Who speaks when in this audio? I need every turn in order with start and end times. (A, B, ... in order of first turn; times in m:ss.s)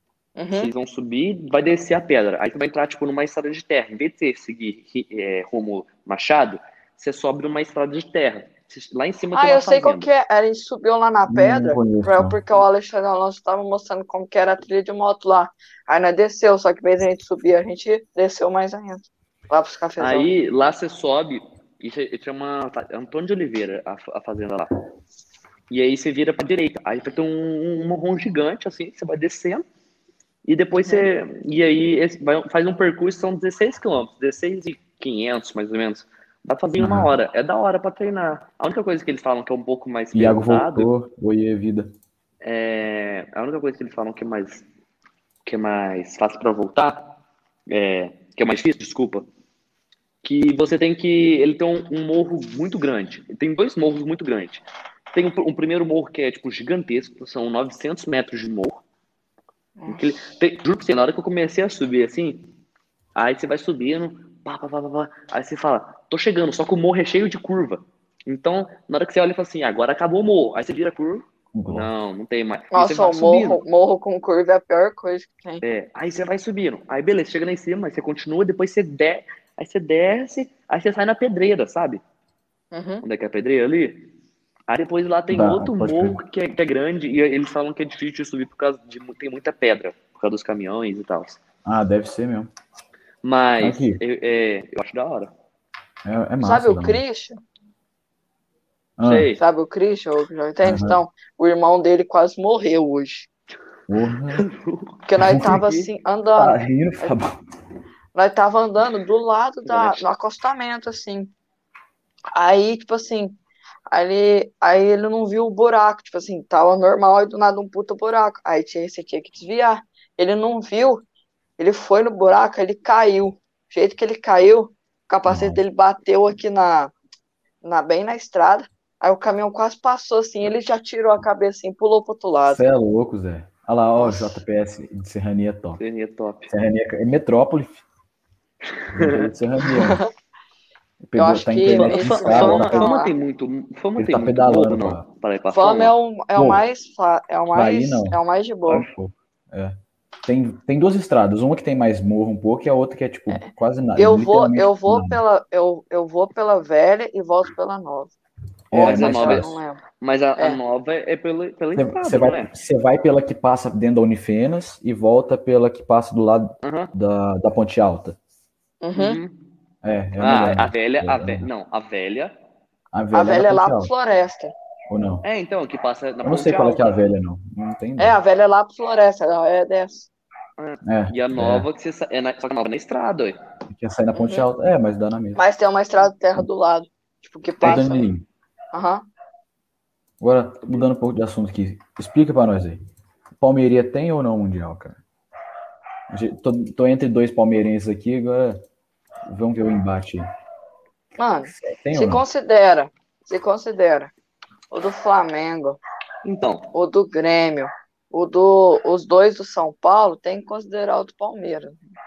0:00.4-0:00.7 A
0:00.5-0:10.1 B
0:09.3-0:20.3 A
0:11.3-0:12.4 C
0:20.0-0:24.7 B
0:25.7-0:29.6 B
0:30.5-0:40.9 B
0:36.8-0:37.1 C
0:40.1-0:41.9 C
0:42.4-0:44.6 B
0:45.4-0:47.1 B
0:47.7-0:49.2 B
0:50.2-0:58.8 B
0:59.8-1:00.1 A
0:59.9-1:02.5 B
1:03.2-1:13.6 B
1:11.6-1:11.9 C
1:12.7-1:15.6 A
1:15.6-1:22.0 B
1:22.7-1:23.0 A
1:23.0-1:24.1 B
1:24.7-1:31.4 B
1:25.3-1:26.2 C
1:31.6-1:32.5 C
1:33.2-1:35.3 B
1:33.6-1:34.0 C
1:36.0-1:37.0 C
1:36.4-1:37.4 A
1:39.0-1:39.3 C
1:39.0-1:39.4 B
1:39.4-1:43.3 A
1:40.6-1:41.0 C
1:43.9-1:44.4 C
1:44.3-1:45.9 B
1:45.1-1:47.1 A
1:45.2-1:45.6 C
1:46.4-1:47.4 C
1:48.2-1:51.3 A
1:49.7-1:50.0 B
1:52.4-1:53.4 A
1:53.9-2:01.0 A
2:01.6-2:06.9 A
2:05.3-2:05.6 C
2:07.6-2:12.6 A
2:12.5-2:15.8 C
2:14.0-2:14.4 A
2:15.8-2:16.5 B
2:16.5-2:17.8 C
2:18.8-2:19.3 B
2:18.9-2:20.0 C
2:19.7-2:20.1 A
2:21.1-2:22.9 C
2:21.2-2:23.1 A
2:21.8-2:26.0 B
2:24.0-2:25.0 C
2:25.5-2:28.9 A
2:26.4-2:26.6 C
2:27.5-2:29.8 C
2:30.3-2:35.2 C
2:33.3-2:38.1 A
2:38.7-2:39.6 C
2:38.7-2:39.8 A
2:38.8-2:39.5 B
2:40.0-2:42.5 B
2:41.8-2:48.2 C
2:46.6-2:46.9 B
2:48.8-2:49.2 A
2:49.0-2:49.4 B
2:49.8-2:51.5 C
2:50.2-2:52.4 B
2:52.9-2:53.9 C
2:53.1-2:54.5 A
2:54.9-2:55.2 C
2:55.2-2:57.0 B
2:56.2-2:58.2 C
2:58.0-3:00.1 A
3:00.6-3:03.4 B
3:00.8-3:01.7 C
3:03.7-3:05.4 C
3:04.1-3:04.5 A
3:05.4-3:08.1 A
3:07.6-3:08.2 C
3:08.7-3:09.0 A
3:10.2-3:12.8 C
3:13.4-3:15.0 C
3:16.1-3:18.6 C
3:19.3-3:20.3 C
3:21.2-3:24.1 A
3:21.5-3:22.2 C
3:24.7-3:25.8 A
3:26.2-3:26.7 B
3:26.7-3:31.8 A